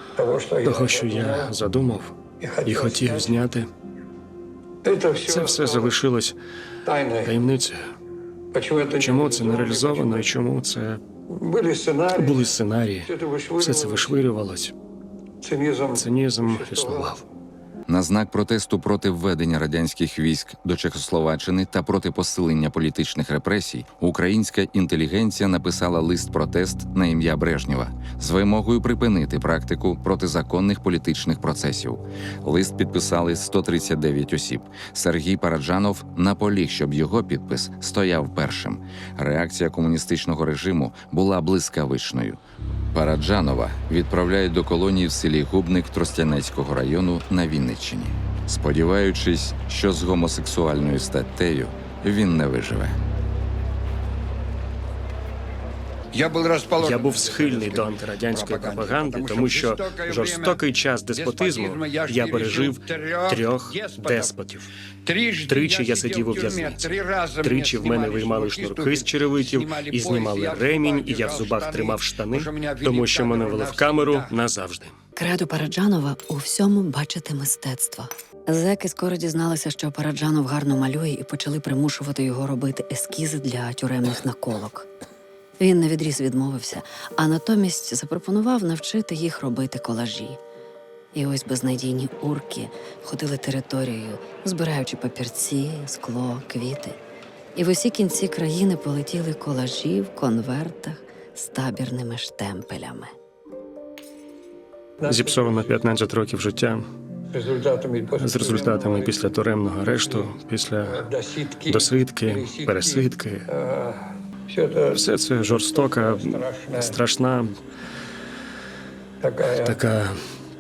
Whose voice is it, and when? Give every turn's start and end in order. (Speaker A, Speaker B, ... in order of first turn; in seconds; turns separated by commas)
Speaker A: 0.2-1.5, Speaker B: 0.6-3.7, Speaker A: 2.4-3.4, Speaker A: 4.8-6.0, Speaker B: 5.2-6.4, Speaker A: 6.8-7.4, Speaker B: 7.2-7.8, Speaker A: 8.5-10.3, Speaker B: 8.9-11.0, Speaker A: 11.3-14.2, Speaker B: 12.1-14.8, Speaker A: 15.4-17.2, Speaker B: 15.9-17.2, Speaker C: 17.9-42.4, Speaker C: 42.9-53.0, Speaker D: 56.1-60.6, Speaker B: 56.8-64.7, Speaker D: 61.1-64.3, Speaker D: 65.0-71.8, Speaker B: 65.5-74.9, Speaker D: 72.4-74.3, Speaker E: 75.2-84.9, Speaker E: 85.6-90.4, Speaker E: 91.1-97.0, Speaker E: 97.5-103.1, Speaker A: 105.0-105.8, Speaker B: 105.1-106.8, Speaker A: 107.3-109.3, Speaker B: 108.2-111.1, Speaker A: 109.8-117.0, Speaker B: 111.7-113.5, Speaker B: 114.9-117.5, Speaker A: 119.2-119.9, Speaker B: 119.6-120.1